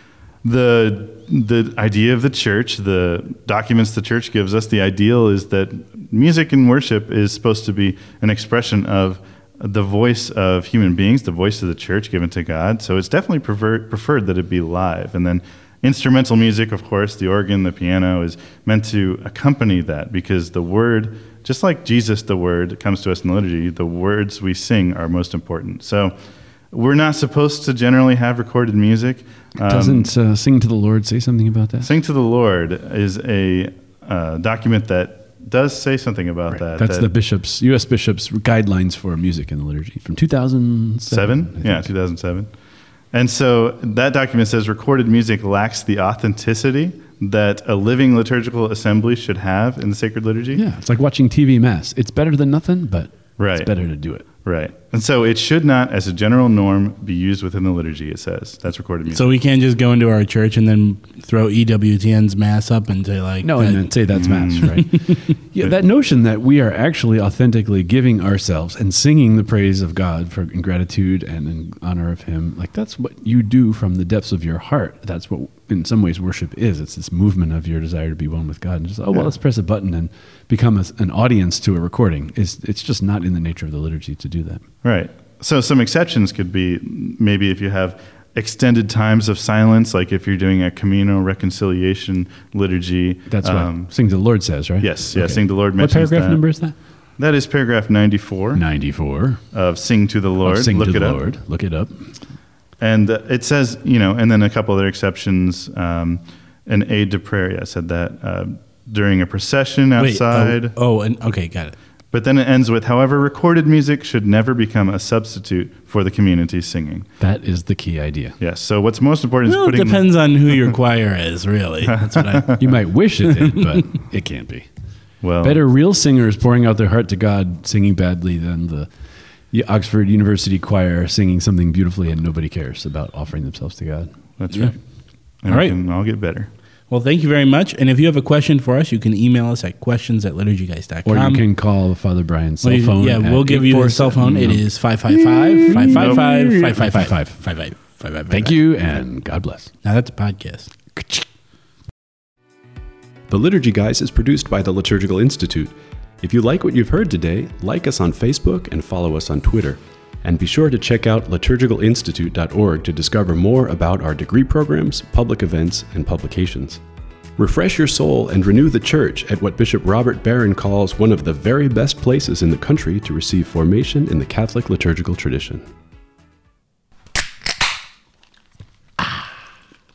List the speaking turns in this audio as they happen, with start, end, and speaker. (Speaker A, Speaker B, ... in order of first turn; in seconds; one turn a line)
Speaker A: 0.4-26.1
Speaker A: 26.7-30.1
Speaker B: 29.6-31.9
Speaker A: 31.8-37.1
Speaker B: 36.5-41.9
Speaker A: 41.1-42.5
Speaker A: 43.1-50.6
Speaker B: 50.6-54.2
Speaker A: 53.4-59.3
Speaker C: 59.1-64.1
Speaker B: 63.4-84.6
Speaker A: 64.1-65.0
Speaker C: 64.7-65.2
Speaker A: 84.8-94.0
Speaker B: 93.3-96.8
Speaker A: 94.8-96.6
Speaker A: 97.2-98.7
Speaker B: 98.5-99.4
Speaker A: 99.5-101.2
Speaker B: 100.4-102.1
Speaker A: 102.8-110.8
Speaker C: 110.0-111.8
Speaker A: 112.1-117.1
Speaker B: 117.2-118.4
Speaker A: 118.4-120.1
Speaker C: 119.5-122.5
Speaker A: 121.9-122.6
Speaker B: 122.6-124.7
Speaker C: 123.5-123.8
Speaker A: 125.2-125.6
Speaker B: 125.4-128.9
Speaker B: 129.5-134.1
Speaker A: 134.4-134.8
Speaker A: 135.4-136.5
Speaker C: 135.5-135.8
Speaker C: 136.9-141.5
Speaker B: 141.1-149.7
Speaker C: 142.6-148.6
Speaker A: 145.9-146.2
Speaker C: 149.8-150.7
Speaker B: 150.9-151.2
Speaker D: 153.3-166.8
Speaker D: 167.4-175.7